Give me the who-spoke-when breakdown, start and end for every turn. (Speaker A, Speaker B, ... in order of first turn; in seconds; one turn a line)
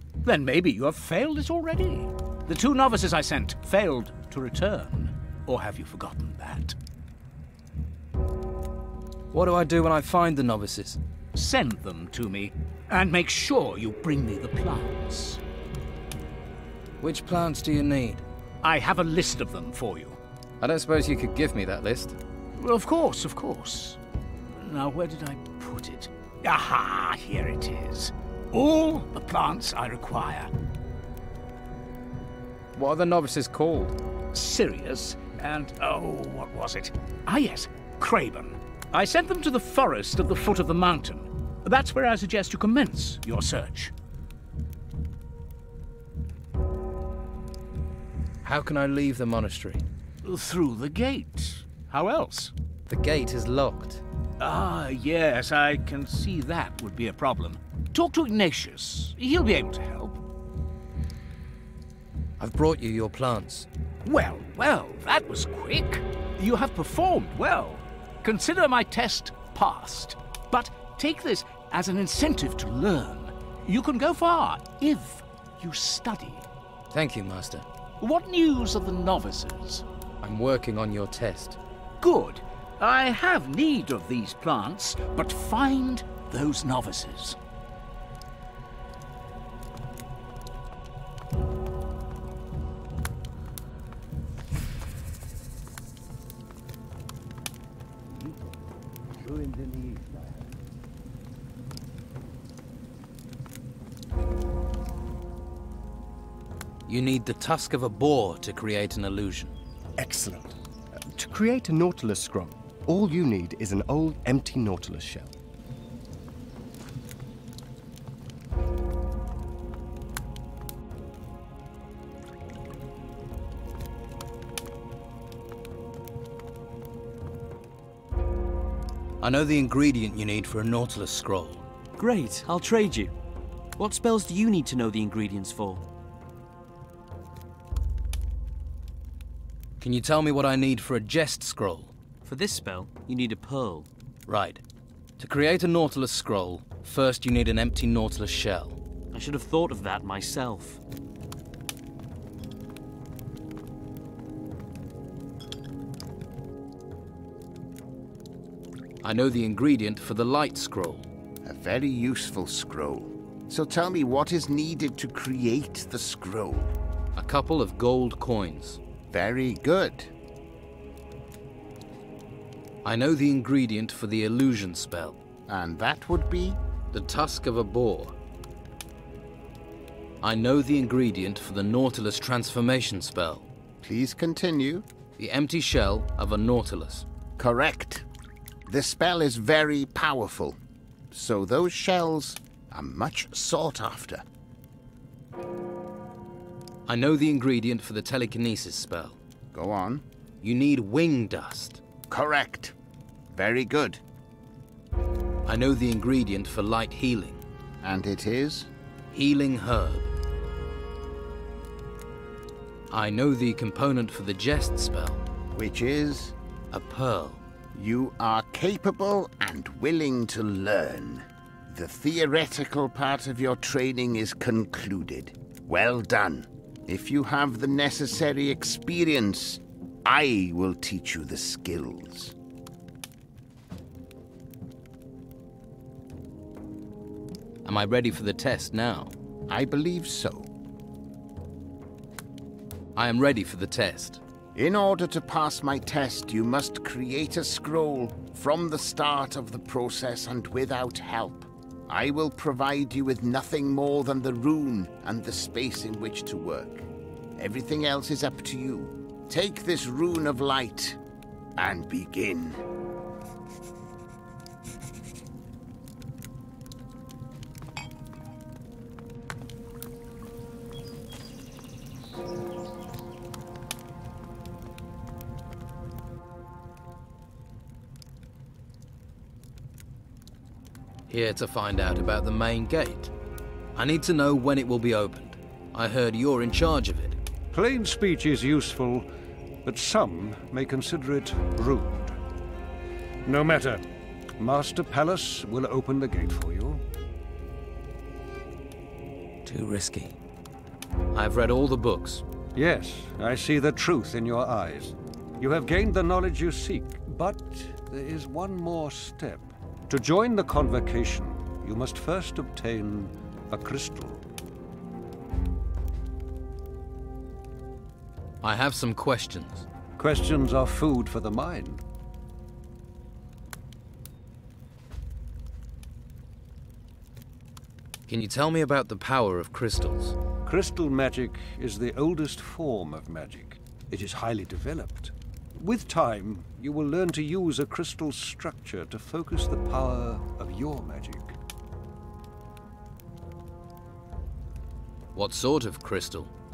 Speaker A: 0.2-6.8
Speaker B: 9.3-11.0
Speaker A: 11.3-15.4
Speaker B: 17.0-18.2
Speaker A: 18.6-20.2
Speaker B: 20.6-22.2
Speaker A: 22.6-24.0
Speaker A: 24.6-30.5
Speaker B: 32.8-33.9
Speaker A: 34.3-43.9
Speaker B: 48.4-49.8
Speaker A: 50.2-52.5
Speaker B: 52.9-54.0
Speaker A: 54.4-60.2
Speaker B: 62.4-63.7
Speaker A: 64.0-76.5
Speaker B: 76.9-77.6
Speaker A: 78.0-79.8
Speaker B: 80.2-81.6
Speaker A: 82.0-87.4
Speaker C: 99.6-100.0
Speaker B: 106.9-109.5
Speaker C: 110.0-115.3
Speaker B: 129.2-131.6
Speaker D: 132.0-133.1
Speaker D: 133.8-135.8
Speaker B: 139.8-141.9
Speaker D: 142.2-143.9
Speaker B: 144.3-144.6
Speaker B: 145.2-148.8
Speaker D: 149.1-150.8
Speaker B: 159.0-161.1
Speaker E: 161.4-166.7
Speaker B: 167.1-168.8
Speaker E: 169.1-170.1
Speaker B: 172.8-175.2
Speaker E: 175.5-176.6
Speaker B: 176.9-178.2
Speaker B: 180.2-183.5
Speaker E: 183.8-184.8
Speaker B: 185.2-187.0
Speaker E: 187.4-188.0
Speaker E: 188.7-190.6
Speaker E: 191.1-194.2
Speaker B: 196.9-199.2
Speaker E: 199.5-200.0
Speaker B: 200.4-201.8
Speaker E: 202.1-202.7
Speaker E: 203.3-204.0
Speaker B: 205.4-207.4
Speaker E: 207.8-208.7
Speaker B: 209.1-210.1
Speaker B: 212.9-215.2
Speaker E: 215.5-216.3
Speaker B: 216.7-217.4
Speaker E: 217.7-232.3
Speaker B: 237.6-239.1
Speaker E: 239.5-240.5
Speaker B: 242.9-244.2
Speaker E: 244.5-261.0
Speaker E: 261.6-262.6
Speaker B: 281.1-283.1
Speaker B: 283.8-287.2
Speaker F: 287.5-289.1
Speaker F: 289.6-292.2
Speaker F: 293.2-293.8
Speaker F: 294.4-296.8
Speaker B: 299.4-300.1
Speaker B: 301.1-302.2
Speaker F: 302.5-314.2
Speaker B: 318.4-319.7
Speaker F: 320.0-321.8
Speaker B: 328.1-330.1
Speaker F: 330.4-341.4
Speaker B: 345.1-346.3